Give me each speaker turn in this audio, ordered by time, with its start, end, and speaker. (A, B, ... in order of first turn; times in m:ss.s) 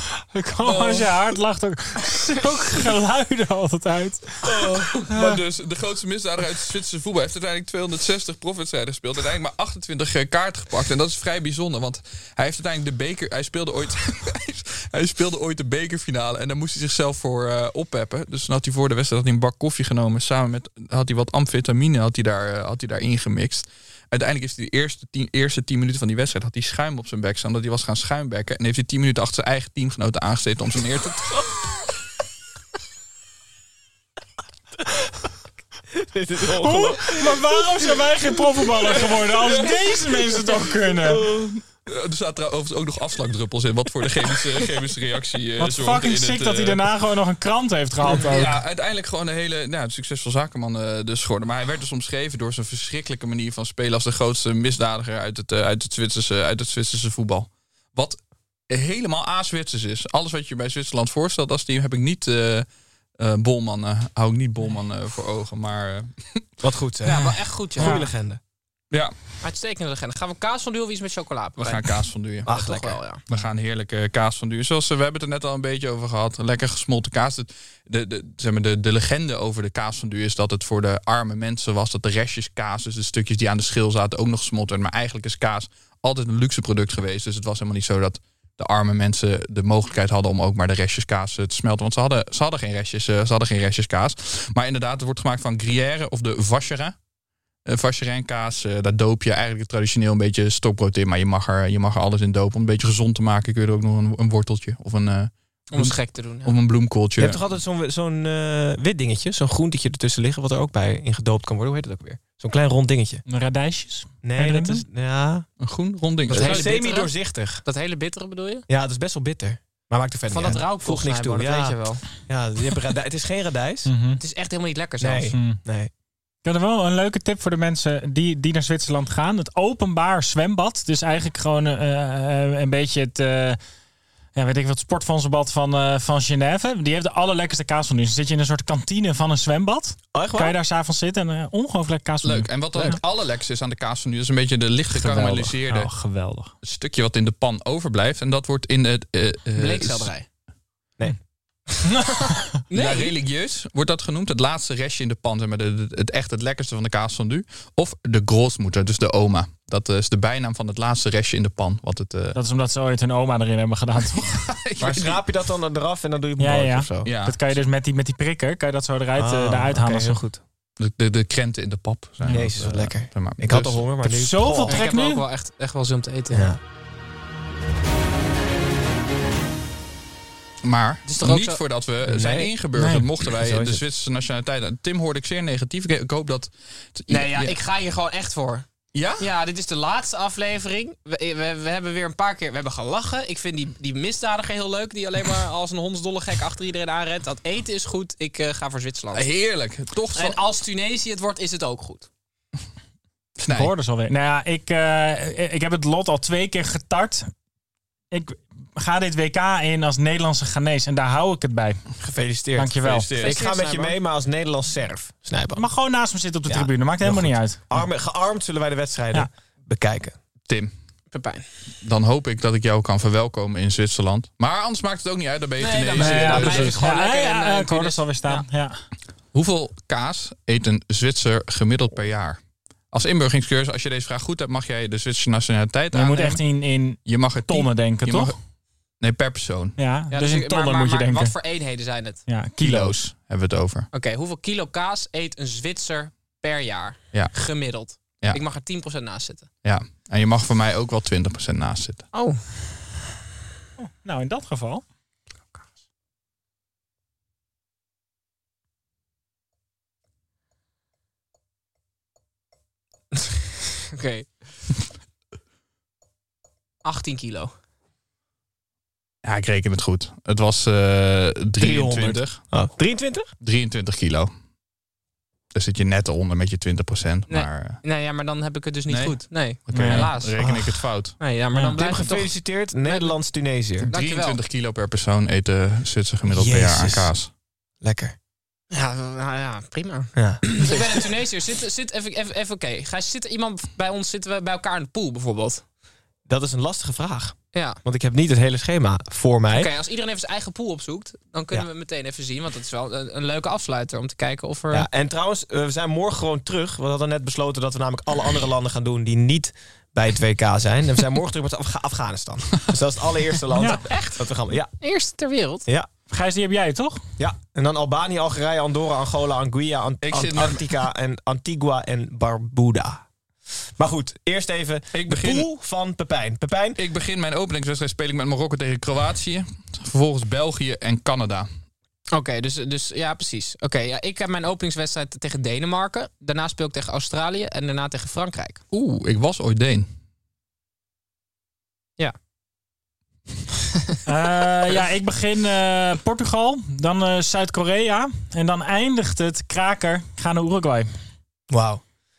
0:00.1-0:05.4 A
0:00.6-0:01.1 B
0:04.4-0:05.1 C
0:05.1-0:31.7 B
0:35.9-0:37.4 D
0:36.6-0:41.3 A
0:39.4-0:46.8 B
0:45.6-0:48.6 A
0:48.0-0:58.2 B
0:58.7-1:02.7 B
1:03.2-1:06.5 B
1:06.6-1:07.2 D
1:07.0-1:08.1 C
1:07.1-1:08.1 A
1:07.8-1:08.4 D
1:09.4-1:13.2 C
1:11.6-1:12.5 B
1:12.4-1:13.0 D
1:13.3-1:37.0 B
1:37.7-1:47.4 B
1:45.7-1:46.6 C
1:47.2-1:53.2 D
1:53.3-1:54.8 A
1:54.2-1:55.4 D
1:55.6-1:56.7 B
1:56.3-1:58.7 C
1:56.3-1:57.6 D
1:58.7-2:03.9 D
2:00.3-2:02.0 C
2:03.8-2:04.2 A
2:04.2-2:05.4 C
2:05.0-2:05.9 D
2:05.3-2:05.6 A
2:06.4-2:13.6 A
2:14.4-2:23.0 A
2:20.1-2:20.6 D
2:22.2-2:25.9 B
2:24.9-2:26.5 A
2:26.6-2:30.1 B
2:29.6-2:30.3 C
2:31.9-2:32.5 A
2:32.7-2:33.2 C
2:32.7-2:42.4 B
2:42.3-2:44.4 A
2:44.8-2:45.2 B
2:44.8-2:47.0 D
2:46.4-2:50.2 A
2:47.0-2:47.6 B
2:49.2-2:50.4 D
2:50.8-2:53.8 B
2:52.2-2:52.5 A
2:52.3-2:54.9 D
2:54.0-2:55.2 A
2:54.7-2:56.6 C
2:56.3-2:56.6 D
3:00.6-3:07.6 B
3:01.0-3:01.6 C
3:02.0-3:02.6 D
3:02.7-3:03.2 A
3:03.4-3:03.8 D
3:07.1-3:08.6 C
3:08.9-3:09.3 B
3:09.2-3:19.3 C
3:19.1-3:20.4 B
3:20.1-3:22.1 C
3:23.4-3:23.7 B
3:23.5-3:27.3 A
3:28.1-3:31.8 A
3:32.0-3:35.7 D
3:32.6-3:33.1 A
3:32.8-3:33.4 B
3:33.2-3:34.0 C
3:35.5-3:37.8 A
3:36.5-3:40.2 D
3:41.1-3:41.4 C
3:41.8-3:46.8 B
3:45.6-3:48.5 C
3:45.9-3:48.8 A
3:49.3-3:52.4 B
3:52.9-3:56.4 B
3:55.9-3:58.4 A
3:57.1-3:58.3 B
3:59.0-3:59.8 B
3:59.8-4:01.4 A
4:00.1-4:02.2 C
4:02.3-4:03.1 A
4:02.6-4:03.9 B
4:03.9-4:09.5 C
4:09.6-4:12.1 B
4:12.1-4:12.4 C
4:13.8-4:14.8 A
4:23.9-4:24.3 C
4:26.8-4:27.5 C
4:29.2-4:32.4 B
4:31.6-4:33.3 D
4:33.4-4:34.3 B
4:35.5-4:37.8 B
4:37.3-4:40.4 C
4:38.9-4:41.2 B
4:39.7-4:40.1 A
4:40.4-4:40.8 D
4:41.2-4:43.2 C
4:41.5-4:41.8 A
4:41.8-4:43.9 D
4:43.8-4:47.3 B
4:43.8-4:44.4 C
4:46.3-4:47.1 D
4:47.8-4:48.1 D
4:48.7-4:55.6 C
4:50.2-4:51.1 D
4:56.3-4:59.7 D
4:57.5-4:57.8 C
4:59.5-5:04.9 C
5:04.7-5:14.7 D
5:13.5-5:13.9 A
5:13.8-5:14.3 C
5:14.8-5:15.7 C
5:16.1-5:17.0 A
5:17.2-5:23.0 D
5:20.0-5:20.7 B
5:23.8-5:26.8 D
5:24.9-5:25.5 B
5:26.8-5:31.5 B
5:32.1-5:38.6 C
5:38.7-5:39.9 B
5:44.1-5:50.9 A
5:51.5-5:51.8 D